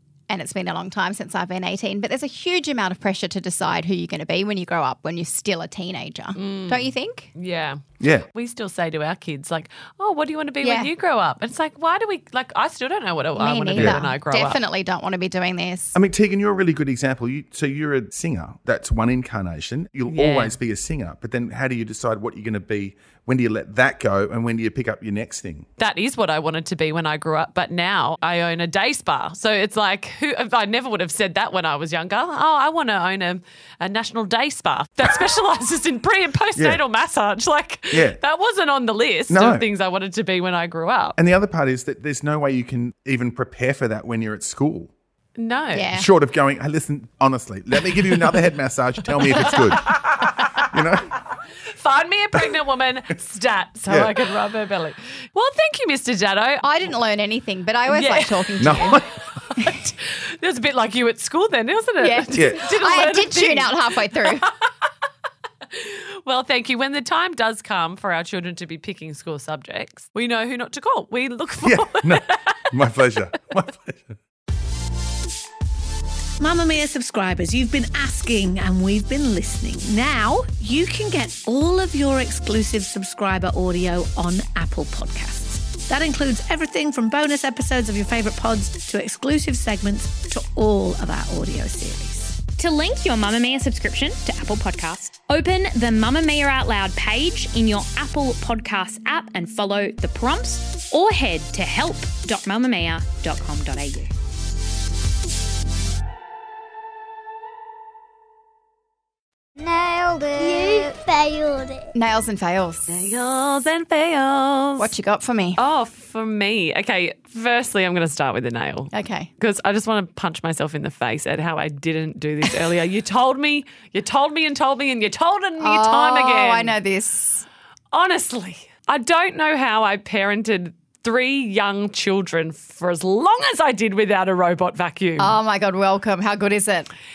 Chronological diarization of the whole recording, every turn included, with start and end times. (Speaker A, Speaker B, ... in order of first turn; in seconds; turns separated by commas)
Speaker A: 0.3-7.3, Speaker B: 6.3-14.6, Speaker C: 8.0-8.2, Speaker A: 10.6-10.9, Speaker A: 13.3-15.9, Speaker C: 15.9-25.6, Speaker B: 20.1-20.5, Speaker B: 25.8-41.2, Speaker C: 36.5-36.8, Speaker C: 37.9-38.2, Speaker C: 39.3-39.7, Speaker C: 41.1-44.9, Speaker B: 45.4-46.0, Speaker A: 45.7-46.1, Speaker C: 45.9-51.2, Speaker B: 49.3-50.8, Speaker B: 51.7-56.7, Speaker C: 53.9-54.1, Speaker A: 56.6-59.0, Speaker B: 57.9-63.7, Speaker C: 58.6-59.1, Speaker A: 59.6-59.9, Speaker A: 62.0-64.4, Speaker C: 62.3-62.6, Speaker B: 65.7-72.6, Speaker C: 71.6-74.1, Speaker D: 76.4-92.5, Speaker E: 92.6-104.1, Speaker F: 109.6-111.9, Speaker A: 111.9-113.1, Speaker B: 112.9-114.9, Speaker A: 114.8-115.6, Speaker B: 115.5-126.8, Speaker A: 118.9-119.3, Speaker A: 125.6-127.5, Speaker B: 127.9-135.3, Speaker A: 135.2-136.9